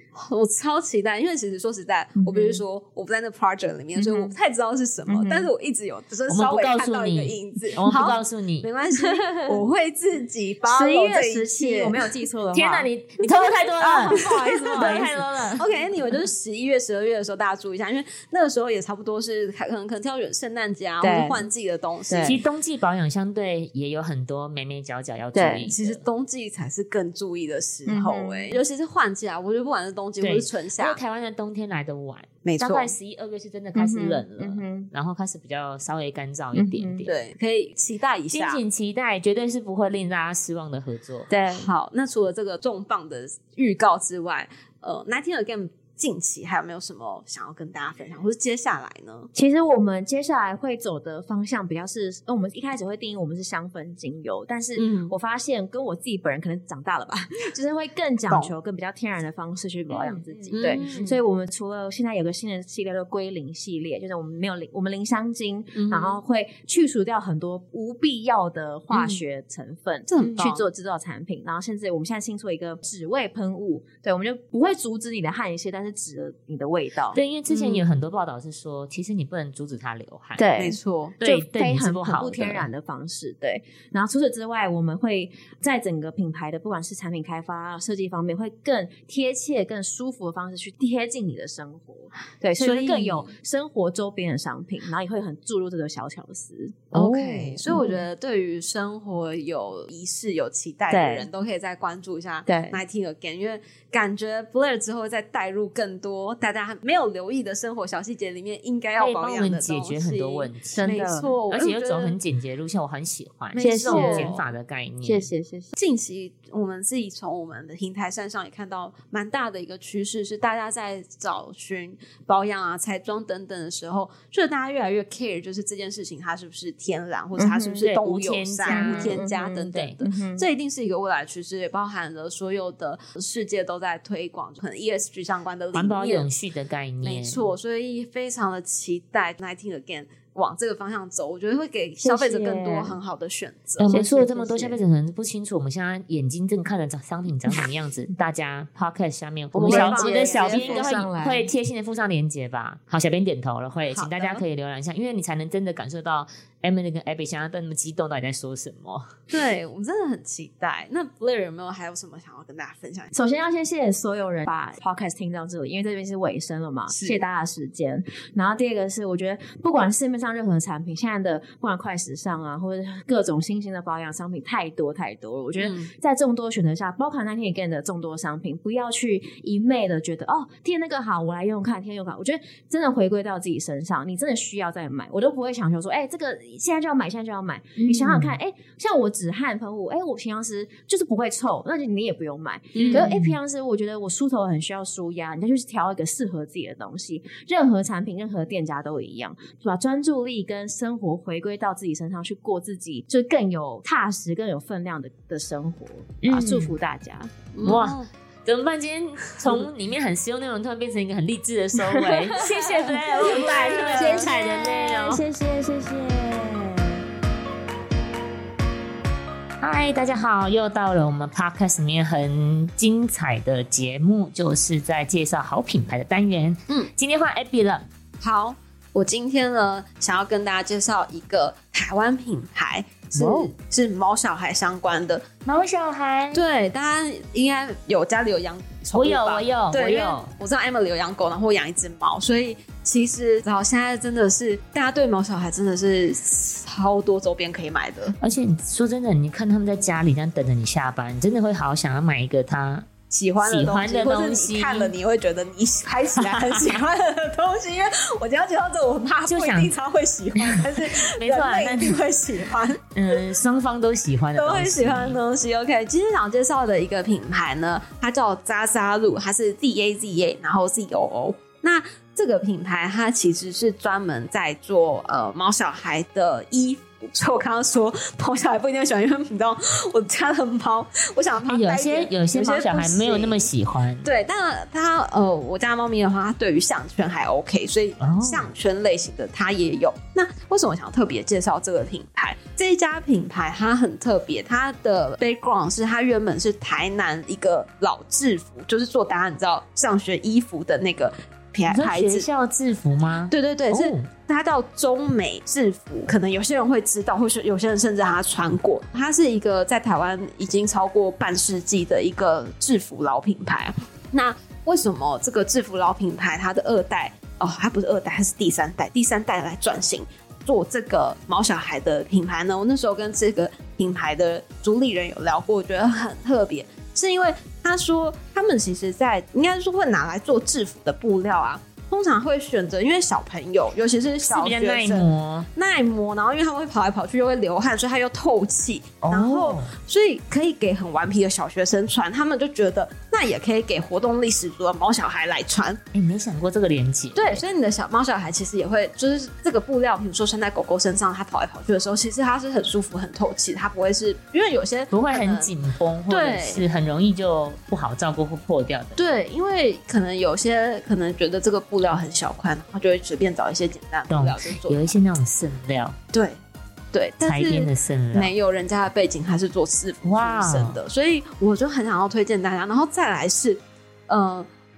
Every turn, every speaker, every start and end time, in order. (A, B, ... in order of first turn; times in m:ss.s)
0:00.1-0:12.1 A
0:02.2-0:02.6 B
0:04.0-0:04.3 B
0:05.1-0:05.5 B
0:06.3-0:08.7 C
0:09.0-0:09.6 B
0:10.6-0:12.9 B
0:12.5-0:15.6 C
0:13.8-0:15.6 B
0:13.8-0:22.4 A
0:21.0-0:21.4 B
0:22.1-0:22.4 B
0:22.2-0:26.0 C
0:25.3-0:25.7 B
0:25.6-0:31.0 A
0:27.8-0:28.6 B
0:30.2-0:37.1 C
0:32.4-0:33.0 A
0:33.7-0:34.9 B
0:36.5-0:37.0 B
0:37.0-0:38.6 A
0:38.3-0:41.3 C
0:41.3-0:41.7 B
0:41.6-0:49.3 A
0:49.3-1:17.2 B
0:54.8-0:55.1 A
0:59.9-1:01.0 C
1:00.5-1:01.2 A
1:05.7-1:06.2 A
1:08.9-1:09.2 A
1:10.1-1:10.6 A
1:17.1-1:20.4 C
1:17.5-1:17.8 A
1:20.4-1:38.0 B
1:20.6-1:21.2 A
1:21.2-1:22.7 C
1:32.6-1:33.3 A
1:36.9-1:52.2 A
1:40.9-1:41.3 B
1:42.5-1:42.8 B
1:49.0-1:55.3 C
1:50.7-1:51.3 B
1:53.5-1:54.4 A
1:53.5-1:54.3 B
1:55.0-1:55.7 B
1:55.7-2:16.3 A
2:07.4-2:07.8 B
2:07.8-2:10.0 C
2:08.7-2:10.4 B
2:15.7-2:17.5 C
2:17.0-2:24.0 A
2:22.0-2:22.9 B
2:23.8-2:39.1 C
2:23.9-2:24.8 B
2:29.5-2:30.9 A
2:29.6-2:31.5 B
2:33.9-2:34.4 A
2:39.3-2:43.1 A
2:43.1-3:27.3 B
2:46.9-2:47.2 A
2:55.6-2:55.9 A
3:07.9-3:08.3 C
3:12.7-3:13.0 A
3:12.8-3:13.4 C
3:26.2-3:26.7 C
3:27.5-3:28.1 A
3:27.6-3:35.2 C
3:31.8-3:37.0 B
3:33.2-3:34.7 A
3:39.6-3:47.8 C
3:48.2-3:55.2 A
3:53.1-3:53.5 C
3:55.4-3:56.4 C
3:56.3-4:08.2 A
3:58.9-4:00.3 C
4:08.2-4:12.9 C
4:13.1-4:22.9 A
4:13.4-4:14.9 C
4:16.2-4:16.8 C
4:19.3-4:19.7 C
4:20.4-4:22.0 C
4:22.9-4:25.2 C
4:24.4-4:43.5 A
4:41.4-4:44.1 C
4:44.0-5:02.3 A
4:48.0-4:48.5 C
5:01.7-5:04.1 C
5:03.3-5:45.8 A
5:34.2-5:35.5 C
5:39.0-5:39.7 C
5:45.9-5:47.4 C
5:47.1-5:55.5 A
5:54.9-5:59.0 C
5:56.1-5:56.6 A
5:59.0-6:04.9 A
6:04.1-6:06.0 C
6:06.9-6:14.5 A
6:07.2-6:08.3 C
6:10.0-6:10.8 C